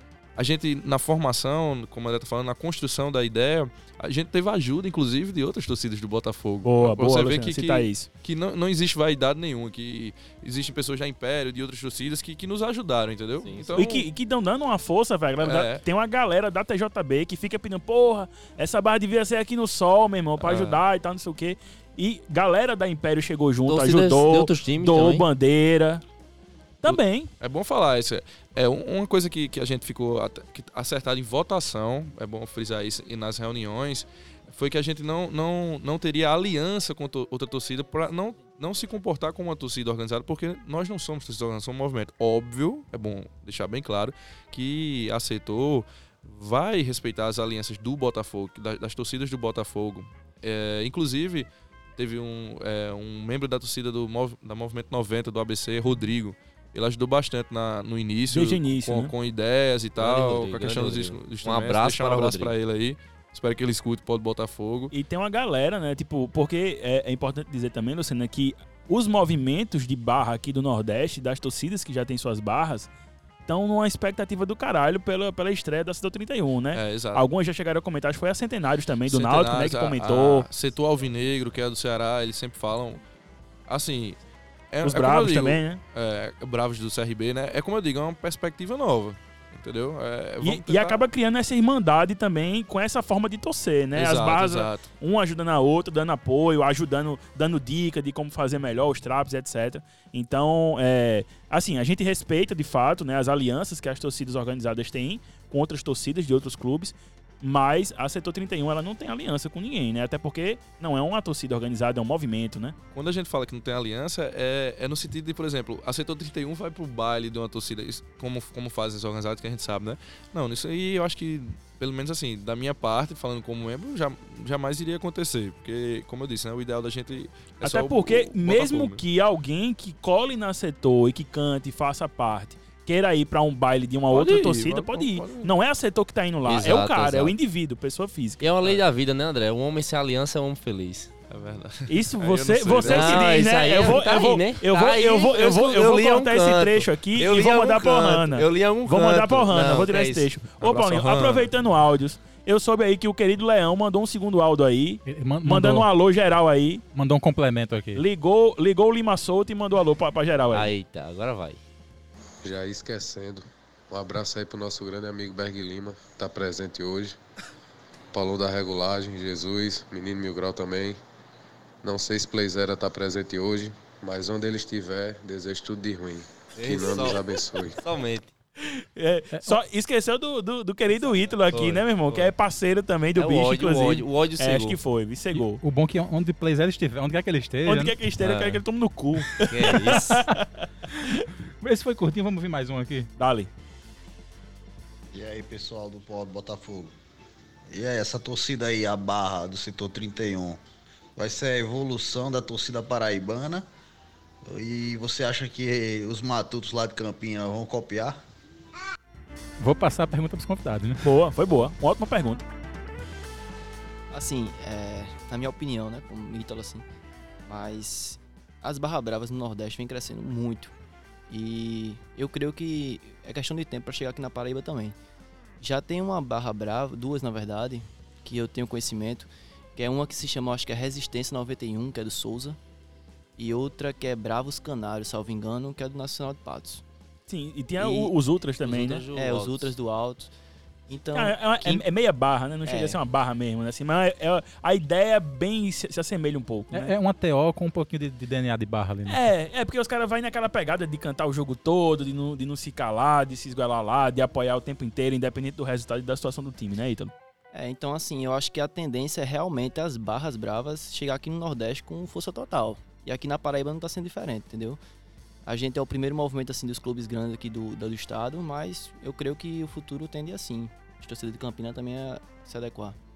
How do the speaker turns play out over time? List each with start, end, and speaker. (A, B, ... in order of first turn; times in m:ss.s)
0:00.4-0:14.1 A
0:06.6-0:08.1 B
0:13.4-0:13.7 C
0:13.8-0:26.0 B
0:15.4-0:15.8 A
0:20.4-0:20.8 A
0:23.7-0:25.2 C
0:26.8-0:27.3 B
0:26.9-1:04.9 A
0:58.3-0:59.1 B
1:00.0-1:02.5 C
1:04.9-1:12.9 B
1:13.5-1:20.5 B
1:16.7-1:17.2 A
1:19.1-1:23.0 A
1:23.7-1:24.2 A
1:24.7-1:31.0 A
1:24.8-1:25.8 B
1:30.4-1:52.8 B
1:33.9-1:34.9 A
1:52.9-2:09.0 A
2:07.6-2:18.4 B
2:14.1-2:15.5 A
2:16.4-2:17.4 C
2:18.4-2:21.1 C
2:21.3-2:23.4 A
2:21.9-2:36.8 B
2:22.9-2:30.3 C
2:30.6-2:31.5 A
2:35.1-2:35.9 D
2:36.9-2:38.0 D
2:38.0-2:40.7 B
2:40.5-2:41.6 C
2:42.4-2:47.2 E
2:48.1-2:51.0 E
2:51.8-2:57.8 E
2:56.6-2:57.2 C
2:57.8-2:58.3 C
2:58.6-3:05.6 B
3:01.5-3:02.3 C
3:03.2-3:04.8 C
3:05.3-3:08.0 D
3:07.7-3:10.7 B
3:08.2-3:08.6 C
3:09.5-3:10.2 C
3:11.6-3:13.1 D
3:13.2-3:13.5 B
3:15.1-3:16.9 F
3:17.7-3:20.6 F
3:21.2-3:23.6 F
3:24.5-3:28.2 F
3:29.6-3:31.1 D
3:31.0-3:32.4 B
3:34.1-3:36.9 G
3:37.5-3:40.7 G
3:41.3-3:45.0 G
3:45.6-3:52.6 G
3:53.4-3:56.8 G
3:57.3-3:59.0 B
3:57.8-3:58.1 G
3:58.6-3:59.7 C
3:59.2-4:00.3 G
4:00.9-4:01.8 G
4:01.1-4:06.9 B
4:02.6-4:03.0 G
4:06.7-4:09.2 D
4:09.1-4:17.1 B
4:17.5-4:24.8 G
4:25.5-4:33.0 G